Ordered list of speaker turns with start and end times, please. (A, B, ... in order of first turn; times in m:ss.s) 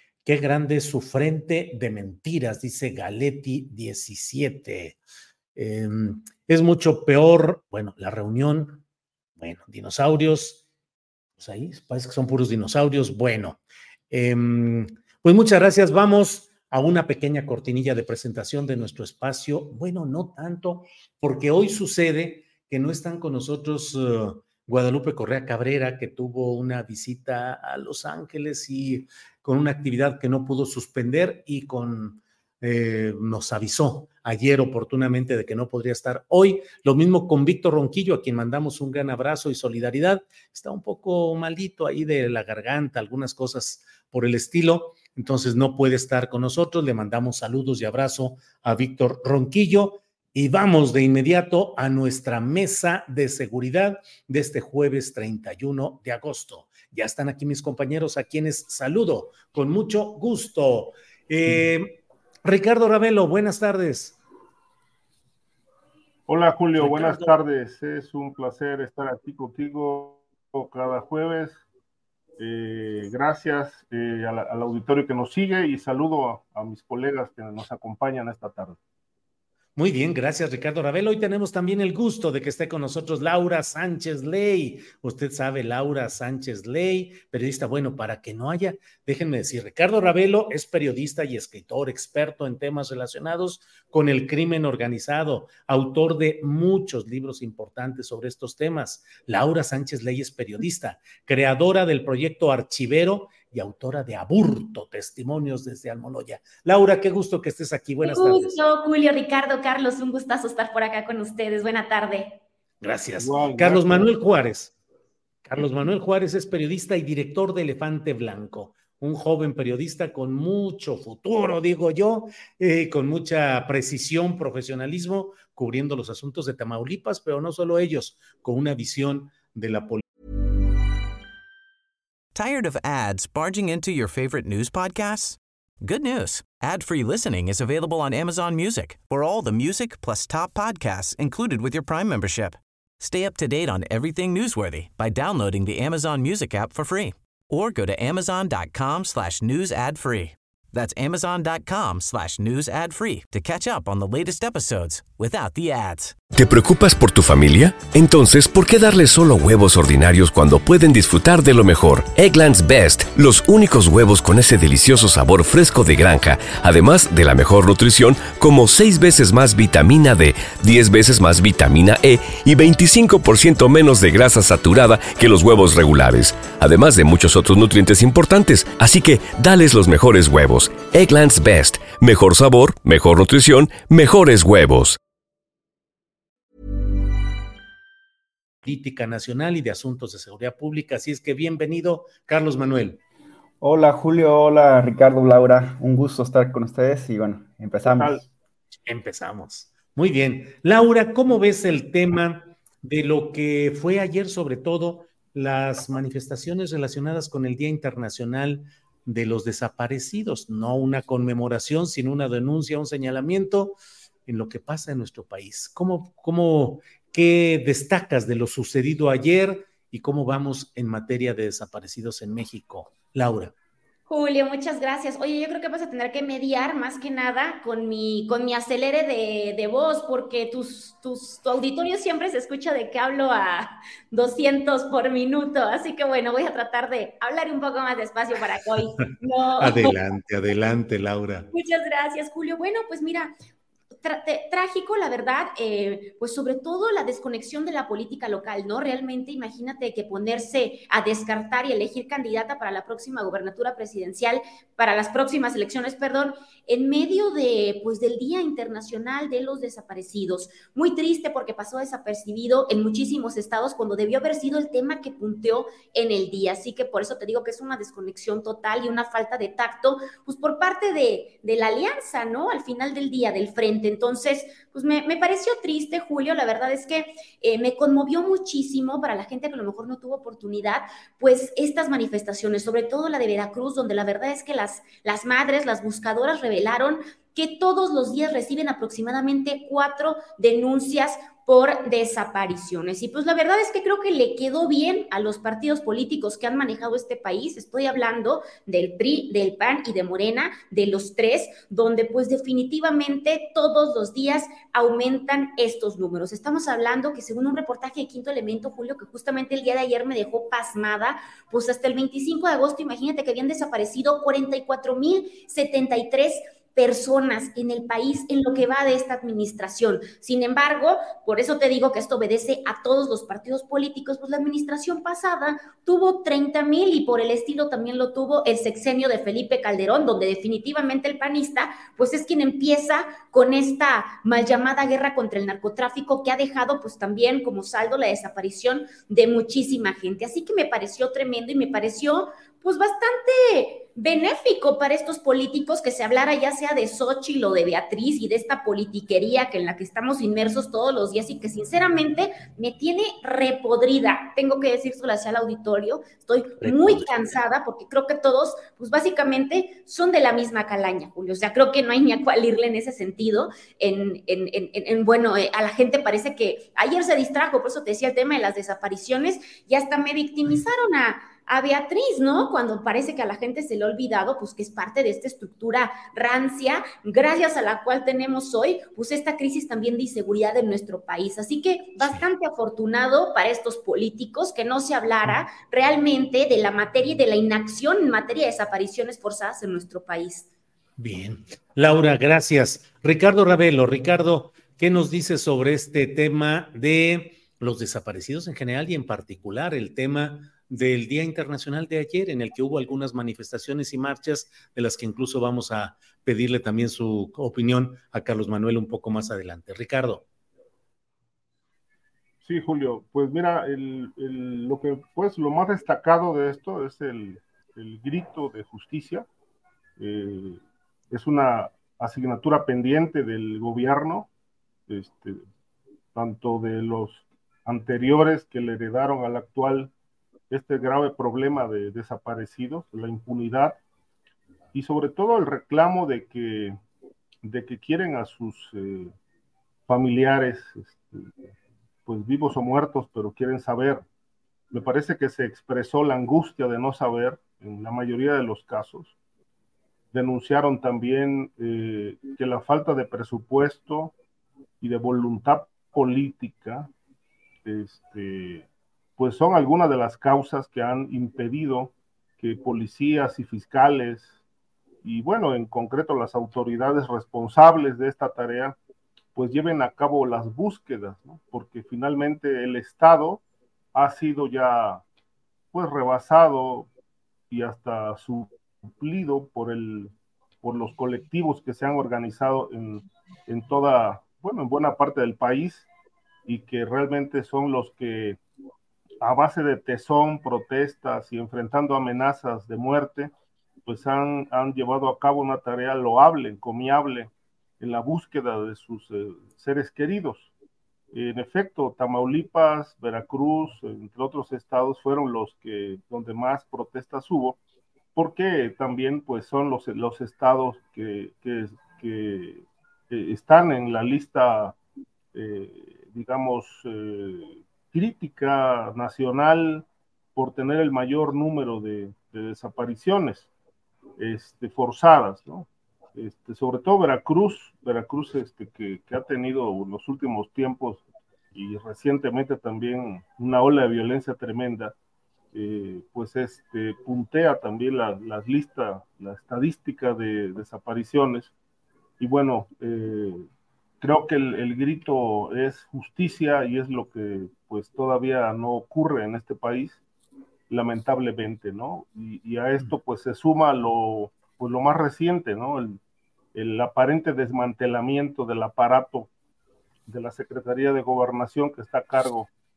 0:00.2-0:05.0 A
0:05.6-0:08.8 A
0:09.4-0:10.6 A
0:11.4-0:13.6 A
0:14.1-1:04.2 A
1:06.3-1:11.6 B
1:06.7-1:07.3 A
1:12.4-1:18.8 B
1:19.8-1:48.6 A
1:48.0-1:52.4 C
1:52.8-1:54.7 A
1:53.2-1:54.1 B
1:55.4-2:10.0 A
2:12.3-2:36.2 D
2:36.3-3:05.0 E
3:08.6-3:13.0 A
3:13.6-3:18.2 F
3:17.8-3:18.2 B
3:18.8-3:43.5 A
3:44.1-3:59.9 C
3:59.6-4:01.5 A
4:01.5-4:03.3 C
4:04.0-6:30.5 C
5:56.6-5:57.4 A
6:22.0-6:22.2 A
6:31.0-6:50.2 A
6:52.4-6:59.3 B
7:00.0-7:04.3 B
7:04.9-7:05.4 B
7:06.1-7:09.9 B
7:10.5-7:13.8 B
7:14.7-7:16.8 B
7:17.4-7:19.1 B
7:19.9-7:21.3 B
7:22.0-7:24.0 B
7:24.7-7:29.1 B
7:30.1-7:34.1 B
7:34.8-7:36.9 B
7:37.6-7:44.4 B
7:45.0-7:48.8 B
7:49.3-7:53.4 B
7:53.9-7:55.0 B
7:55.7-7:56.9 B
7:57.5-8:05.9 B
8:06.5-8:08.4 B
8:09.2-8:13.3 B
8:13.8-8:20.5 B
8:21.1-8:27.6 B
8:28.1-8:34.7 B
8:35.3-8:43.5 B
8:44.2-8:54.9 B
8:55.5-9:01.5 B
9:02.2-9:03.4 B
9:04.0-9:10.0 B
9:10.7-9:16.0 B
9:16.5-9:19.3 B
9:20.1-9:22.5 B